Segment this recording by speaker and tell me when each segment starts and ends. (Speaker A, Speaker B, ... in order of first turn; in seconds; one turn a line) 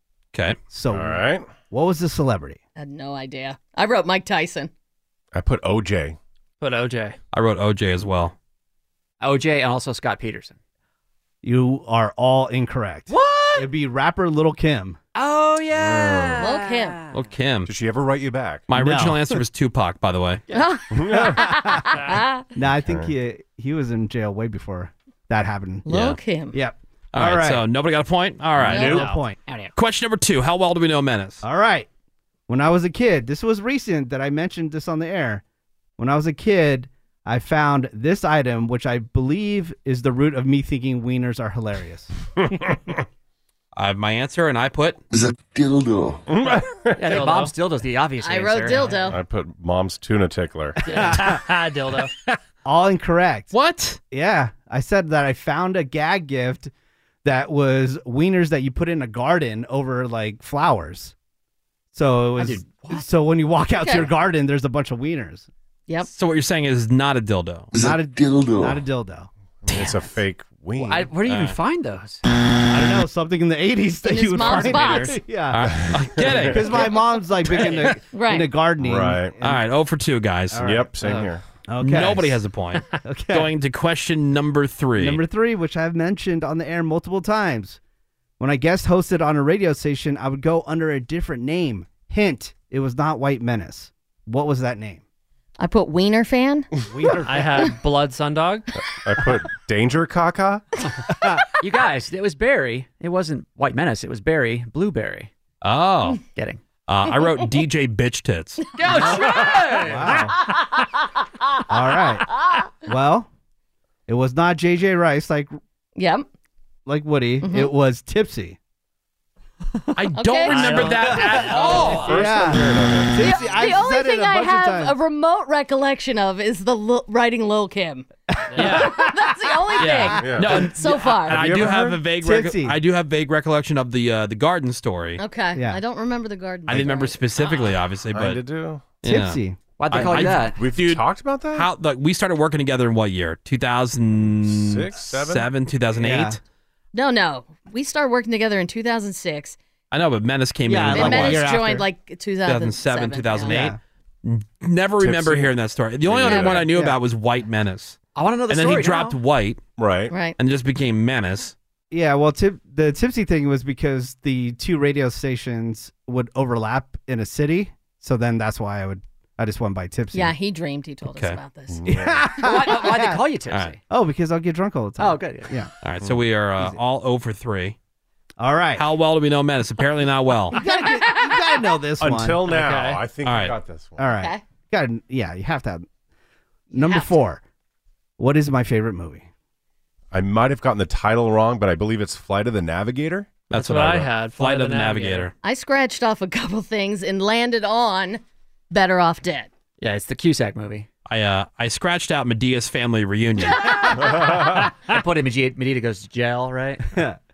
Speaker A: 0.7-2.6
Speaker B: 0.9-1.5
Speaker C: 2.8-4.7
Speaker B: 5.3-6.2
Speaker D: 6.6-7.2
Speaker E: 7.3-8.3
Speaker F: 9.2-10.6
Speaker A: 11.4-15.0
Speaker F: 13.1-13.7
Speaker F: 15.1-17.1
Speaker B: 15.7-16.5
Speaker C: 16.4-17.0
Speaker E: 17.1-17.7
Speaker B: 17.6-18.6
Speaker E: 18.7-20.4
Speaker A: 18.7-19.4
Speaker C: 20.5-22.4
Speaker B: 20.9-21.4
Speaker A: 21.1-21.9
Speaker A: 22.5-25.9
Speaker B: 22.8-23.1
Speaker C: 25.9-26.6
Speaker E: 25.9-26.2
Speaker A: 26.5-27.6
Speaker E: 27.1-29.1
Speaker A: 28.7-29.4
Speaker C: 28.7-29.0
Speaker D: 28.8-29.2
Speaker E: 29.7-31.4
Speaker A: 31.4-31.9
Speaker A: 32.5-35.4
Speaker A: 36.0-42.1
Speaker B: 42.4-43.0
Speaker E: 43.8-45.0
Speaker G: 45.1-46.2
Speaker B: 46.3-47.0
Speaker F: 47.0-49.0
Speaker D: 47.0-47.5
Speaker C: 48.2-49.2
Speaker B: 49.0-51.2
Speaker D: 50.8-52.1
Speaker A: 50.9-51.4
Speaker A: 52.6-53.5
Speaker E: 53.5-54.0
Speaker A: 54.1-56.7
Speaker A: 57.2-61.1
Speaker A: 61.9-65.5
Speaker F: 62.4-63.1
Speaker C: 63.8-64.1
Speaker E: 66.1-67.7
Speaker G: 67.7-68.8
Speaker A: 67.7-69.3
Speaker B: 69.6-71.1
Speaker E: 69.7-70.1
Speaker F: 70.8-72.2
Speaker E: 71.2-71.6
Speaker A: 72.7-79.6
Speaker C: 74.0-75.2
Speaker E: 75.5-76.9
Speaker B: 75.7-76.6
Speaker C: 78.1-78.5
Speaker B: 78.8-79.3
Speaker E: 79.4-80.8
Speaker A: 80.5-82.4
Speaker B: 80.6-81.4
Speaker E: 81.8-85.2
Speaker A: 83.0-83.5
Speaker A: 85.0-87.8
Speaker A: 88.4-95.0
Speaker C: 95.6-96.7
Speaker A: 96.9-97.7
Speaker D: 97.2-98.7
Speaker B: 98.9-100.6
Speaker F: 101.6-105.3
Speaker E: 105.6-106.2
Speaker F: 106.3-106.6
Speaker E: 106.9-108.7
Speaker F: 108.8-110.1
Speaker A: 108.9-110.4
Speaker D: 109.2-109.9
Speaker A: 111.7-113.3
Speaker A: 114.1-115.5
Speaker C: 116.0-116.2
Speaker A: 116.8-118.6
Speaker C: 117.4-117.7
Speaker E: 119.9-122.5
Speaker C: 120.2-121.0
Speaker D: 120.5-122.2
Speaker A: 120.8-125.0
Speaker B: 121.5-123.1
Speaker C: 123.2-128.1
Speaker A: 128.3-130.6
Speaker D: 128.5-128.9
Speaker C: 128.6-131.4
Speaker E: 129.8-135.2
Speaker B: 130.2-132.0
Speaker A: 132.2-132.8
Speaker C: 135.2-137.2
Speaker A: 135.5-135.8
Speaker E: 136.7-138.4
Speaker B: 138.1-138.8
Speaker E: 139.0-139.4
Speaker A: 139.0-139.6
Speaker F: 139.8-140.6
Speaker E: 139.9-146.4
Speaker B: 140.0-141.7
Speaker B: 144.1-145.5
Speaker A: 145.9-146.4
Speaker C: 146.9-149.6
Speaker E: 149.9-151.4
Speaker A: 150.7-151.9
Speaker C: 150.9-153.6
Speaker E: 152.4-159.6
Speaker A: 153.4-153.8
Speaker B: 155.0-156.7
Speaker C: 156.2-156.7
Speaker A: 156.6-157.0
Speaker F: 158.1-159.2
Speaker B: 159.8-160.1
Speaker C: 160.1-160.3
Speaker E: 160.4-161.5
Speaker A: 161.9-170.3
Speaker C: 170.1-171.8
Speaker E: 171.1-171.4
Speaker B: 171.7-172.3
Speaker A: 171.8-173.2
Speaker F: 172.4-173.8
Speaker E: 173.5-173.8
Speaker A: 173.9-175.7
Speaker F: 175.0-175.6
Speaker E: 175.8-177.8
Speaker A: 178.4-178.8
Speaker E: 178.8-180.6
Speaker A: 180.5-182.5
Speaker C: 180.5-181.4
Speaker B: 182.0-184.0
Speaker D: 182.5-183.0
Speaker E: 183.2-183.6
Speaker A: 184.0-185.8
Speaker A: 186.7-187.4
Speaker C: 186.8-187.1
Speaker A: 188.2-189.3
Speaker B: 190.1-193.4
Speaker E: 193.5-195.3
Speaker D: 193.5-195.3
Speaker C: 195.4-199.5
Speaker F: 199.8-200.9
Speaker E: 201.1-203.8
Speaker F: 204.3-207.0
Speaker A: 206.9-207.2